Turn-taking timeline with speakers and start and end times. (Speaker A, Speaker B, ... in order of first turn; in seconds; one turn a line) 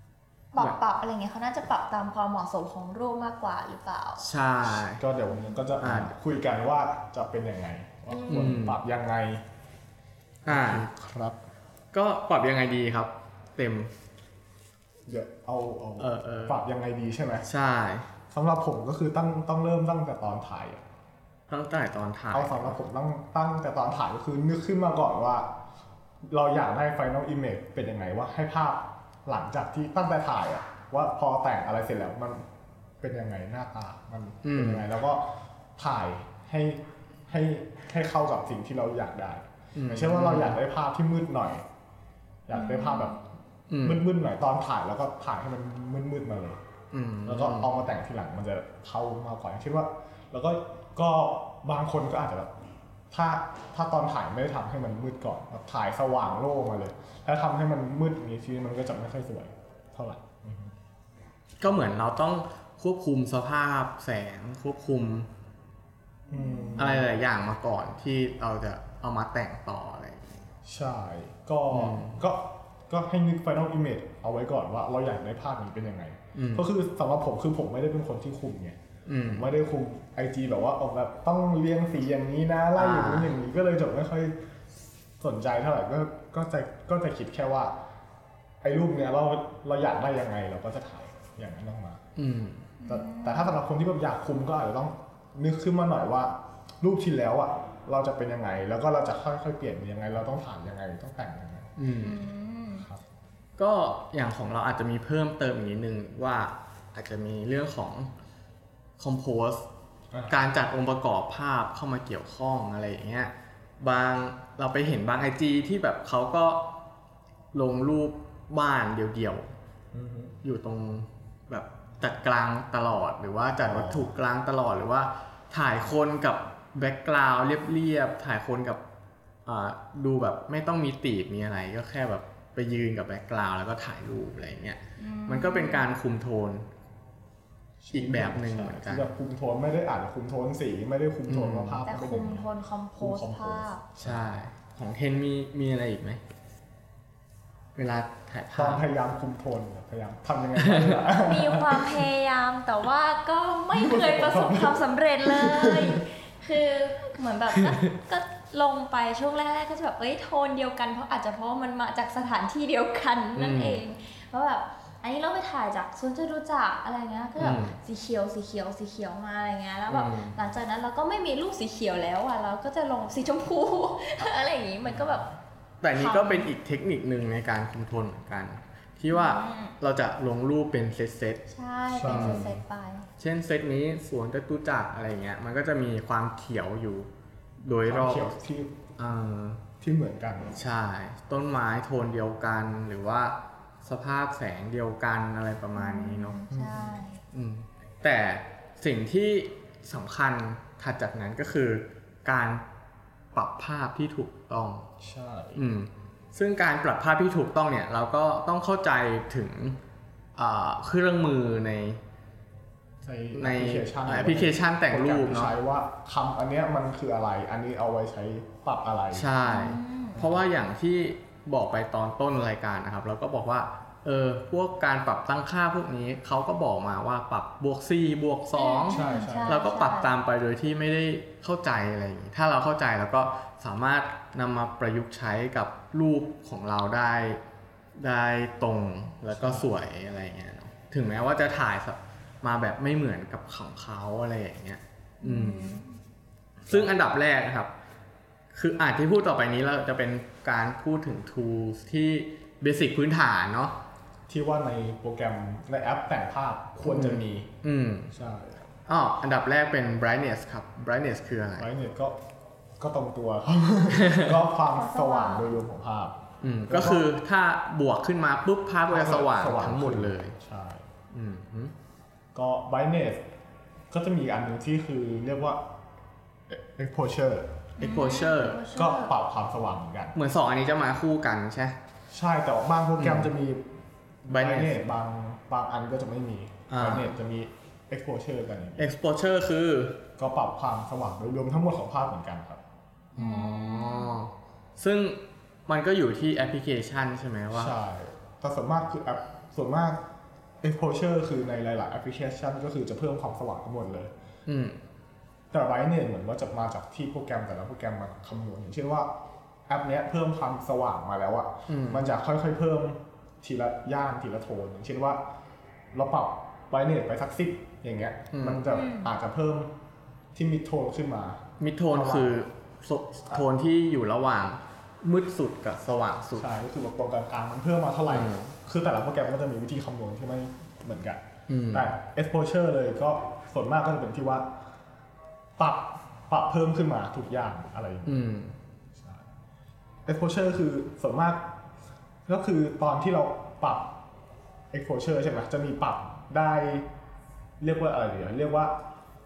Speaker A: 0.5-4.2
Speaker B: 4.2-5.0
Speaker C: 4.7-9.4
Speaker B: 5.8-6.2
Speaker A: 8.1-8.6
Speaker B: 8.3-8.8
Speaker C: 10.4-11.4
Speaker B: 10.5-10.9
Speaker B: 11.9-13.9
Speaker C: 15.1-17.5
Speaker B: 16.0-16.6
Speaker B: 17.4-18.1
Speaker C: 18.3-20.8
Speaker B: 21.5-22.8
Speaker C: 22.3-25.6
Speaker C: 26.3-32.5
Speaker C: 33.0-41.7
Speaker B: 34.4-34.8
Speaker B: 39.7-40.6
Speaker C: 42.5-43.2
Speaker A: 42.5-43.2
Speaker B: 43.7-44.0
Speaker C: 43.8-46.6
Speaker B: 46.9-47.7
Speaker C: 47.2-52.5
Speaker C: 53.1-60.8
Speaker B: 61.6-65.3
Speaker C: 66.3-67.1
Speaker A: 66.3-66.9
Speaker B: 66.8-70.5
Speaker C: 70.7-84.3
Speaker B: 71.7-72.2
Speaker B: 76.3-76.7
Speaker B: 79.1-79.5
Speaker B: 82.8-83.3
Speaker C: 85.2-87.8
Speaker C: 88.6-92.0
Speaker B: 92.2-92.7
Speaker A: 92.8-93.5
Speaker C: 92.9-101.8
Speaker B: 101.8-102.2
Speaker A: 102.0-102.9
Speaker B: 103.6-108.1
Speaker B: 109.0-109.7
Speaker C: 110.1-110.4
Speaker B: 110.3-116.7
Speaker B: 117.5-119.5
Speaker C: 119.9-120.4
Speaker B: 120.4-128.8
Speaker C: 123.6-124.2
Speaker B: 129.4-136.7
Speaker A: 135.0-135.9
Speaker C: 137.8-144.2
Speaker B: 137.9-139.1
Speaker B: 141.3-141.8
Speaker A: 141.8-143.8
Speaker B: 144.0-146.2
Speaker B: 147.8-148.8
Speaker C: 148.6-152.1
Speaker B: 150.6-151.1
Speaker A: 151.1-175.3
Speaker C: 153.7-156.1
Speaker B: 157.6-157.9
Speaker B: 163.4-163.8
Speaker B: 167.4-167.8
Speaker B: 169.9-170.4
Speaker C: 174.9-175.2
Speaker B: 175.8-181.4
Speaker A: 175.9-176.5
Speaker A: 179.1-179.8
Speaker A: 181.5-183.1
Speaker C: 181.9-182.5
Speaker B: 182.1-182.6
Speaker B: 183.2-187.1
Speaker B: 187.6-188.3
Speaker C: 187.9-188.8
Speaker B: 189.0-189.6
Speaker C: 189.8-190.6
Speaker B: 190.5-196.4
Speaker A: 195.8-197.2
Speaker C: 196.5-197.0
Speaker B: 197.3-202.6
Speaker B: 203.3-204.9
Speaker C: 205.0-205.6
Speaker B: 205.6-209.8
Speaker B: 210.4-212.0
Speaker C: 213.0-219.3
Speaker B: 213.4-215.6
Speaker B: 219.1-237.4
Speaker A: 219.4-220.2
Speaker C: 220.1-220.4
Speaker A: 228.5-230.1
Speaker C: 228.9-229.6
Speaker B: 237.9-245.8
Speaker C: 239.3-239.7
Speaker A: 245.2-245.9
Speaker B: 246.7-247.7
Speaker C: 246.7-247.0
Speaker B: 248.5-253.8
Speaker C: 254.3-257.5
Speaker B: 256.8-258.1
Speaker C: 258.1-258.6
Speaker B: 258.9-261.7
Speaker C: 261.6-262.2
Speaker C: 262.8-267.1
Speaker B: 263.9-264.4
Speaker A: 264.7-265.5
Speaker B: 266.4-270.4
Speaker C: 268.9-270.9
Speaker B: 271.1-271.7
Speaker C: 272.3-273.2
Speaker C: 273.9-275.7
Speaker C: 276.5-277.7
Speaker B: 277.8-278.6
Speaker A: 277.8-279.1
Speaker C: 278.7-280.1
Speaker B: 280.1-281.8
Speaker C: 282.1-283.7
Speaker B: 283.0-283.3
Speaker C: 284.2-288.9
Speaker B: 284.3-284.8
Speaker B: 286.7-287.1
Speaker B: 288.8-290.0
Speaker C: 290.2-292.6
Speaker B: 293.1-297.8
Speaker A: 293.2-294.1
Speaker C: 297.5-300.0
Speaker C: 300.6-304.1
Speaker B: 304.4-304.8
Speaker C: 305.5-309.1
Speaker C: 309.7-315.2
Speaker B: 311.7-312.1
Speaker C: 315.9-319.7
Speaker B: 318.3-318.7
Speaker A: 318.7-319.1
Speaker C: 320.4-322.3
Speaker B: 321.6-326.5
Speaker C: 326.4-334.5
Speaker B: 328.1-328.5
Speaker B: 331.5-331.9
Speaker C: 335.6-338.2
Speaker B: 338.1-338.6
Speaker C: 338.9-339.2
Speaker C: 340.1-341.5
Speaker C: 342.3-344.0
Speaker C: 344.7-346.9
Speaker C: 347.6-348.8